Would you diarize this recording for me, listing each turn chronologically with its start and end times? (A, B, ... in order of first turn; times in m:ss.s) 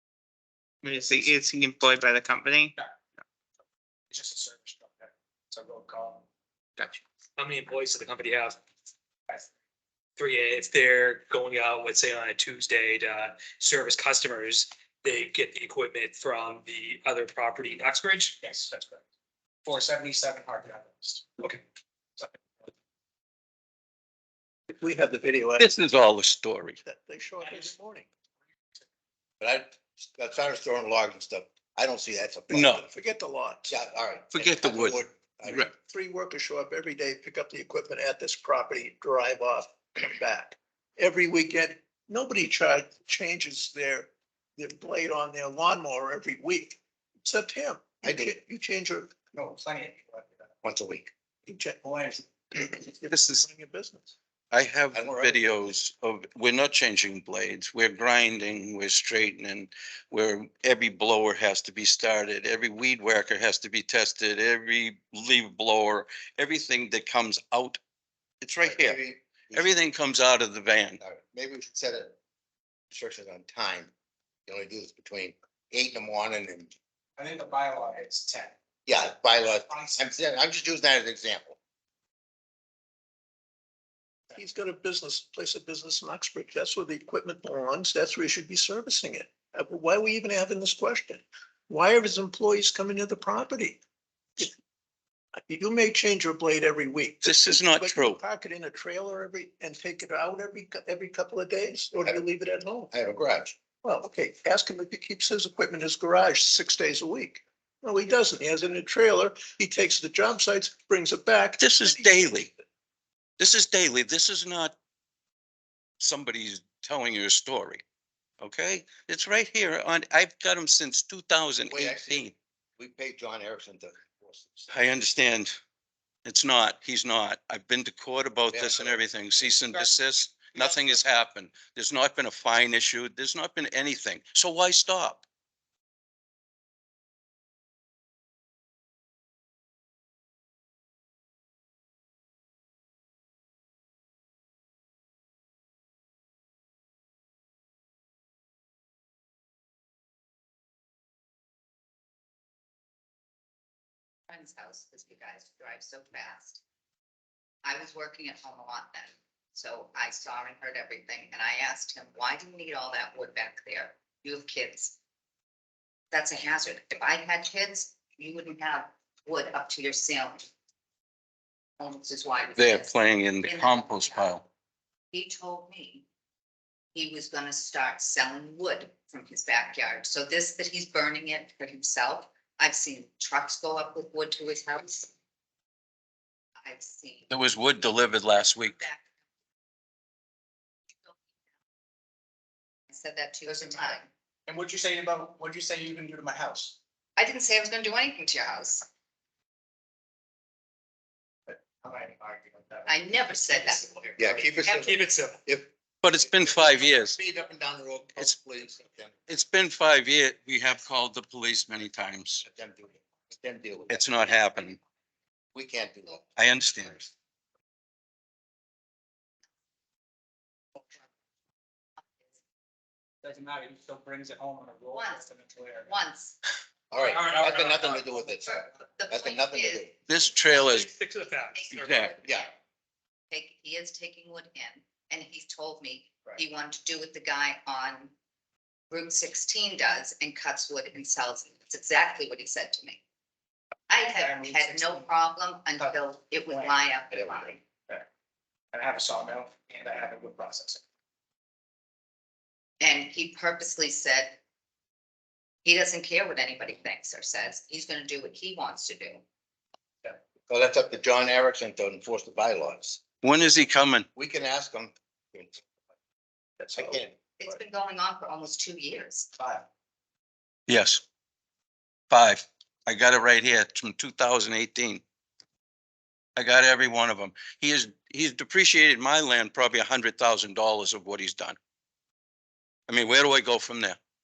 0:00.8-0:02.8 A
0:04.1-0:06.2 B
0:07.4-0:08.6 C
0:10.2-0:18.4 C
0:18.4-0:19.0 B
0:19.6-0:21.6 B
0:24.7-0:25.7 D
0:25.6-0:26.8 E
0:26.8-0:28.1 D
0:29.4-0:32.7 F
0:32.5-0:33.7 D
0:32.5-0:32.8 E
0:33.7-0:35.7 F
0:34.3-0:35.7 E
0:35.8-0:49.3 D
0:48.0-0:48.3 F
0:49.3-0:50.3 B
0:50.6-0:51.1 F
0:51.5-0:51.8 D
0:51.8-0:52.2 B
0:52.5-0:54.1 D
0:53.1-0:53.4 E
0:54.5-1:07.8 E
0:54.9-0:55.7 F
1:08.4-1:09.0 E
1:08.6-1:09.7 F
1:09.5-1:11.0 E
1:11.0-1:12.1 F
1:12.9-1:13.9 F
1:14.5-1:16.7 F
1:17.2-1:18.5 B
1:18.8-1:21.6 F
1:19.7-1:20.0 B
1:24.3-1:33.8 D
1:35.5-1:42.9 D
1:37.2-1:38.2 E
1:42.9-1:43.5 F
1:43.8-1:52.6 D
1:51.6-1:52.5 E
1:53.4-1:54.7 E
1:56.0-1:57.8 E
1:58.4-2:02.3 E
2:01.7-2:04.7 F
2:04.7-2:05.5 E
2:06.2-2:15.2 E
2:08.5-2:09.1 F
2:10.6-2:11.0 B
2:34.3-2:36.6 G
2:37.6-2:45.0 G
2:46.1-2:50.5 G
2:51.8-2:54.4 G
2:52.6-2:54.4 E
2:55.1-2:56.0 G
2:56.9-3:05.1 G
3:06.6-3:07.3 G
3:07.3-3:08.8 E
3:08.3-3:09.1 G
3:12.9-3:14.0 G
3:13.4-3:16.8 B
3:17.2-3:18.8 G
3:21.5-3:25.2 B
3:22.8-3:23.9 G
3:24.2-3:25.7 F
3:26.0-3:27.2 E
3:26.2-3:29.2 F
3:29.3-3:32.4 E
3:32.4-3:34.0 F
3:33.9-3:34.8 E
3:35.5-3:36.2 F
3:36.4-3:37.1 E
3:43.2-3:45.9 B
3:44.9-3:45.3 G
3:45.8-3:46.4 G
3:46.9-3:49.9 F
3:47.0-3:48.1 B
3:48.2-3:50.7 G
3:50.1-3:50.9 E
3:50.6-3:52.0 C
3:51.5-3:52.5 G
3:51.7-3:52.1 E
3:52.2-3:52.5 F
3:53.3-3:58.1 G
3:58.9-4:03.0 G
4:03.9-4:07.6 G
4:04.0-4:05.1 B
4:08.7-4:10.8 B
4:12.8-4:14.4 G
4:15.6-4:19.2 G
4:20.4-4:23.0 F
4:23.2-4:24.1 E
4:24.2-4:25.6 F
4:26.6-4:27.0 D
4:26.7-4:27.1 F
4:27.4-4:29.3 G
4:30.7-4:31.0 E
4:32.1-4:35.0 E
4:36.4-4:41.6 E
4:42.9-4:44.0 E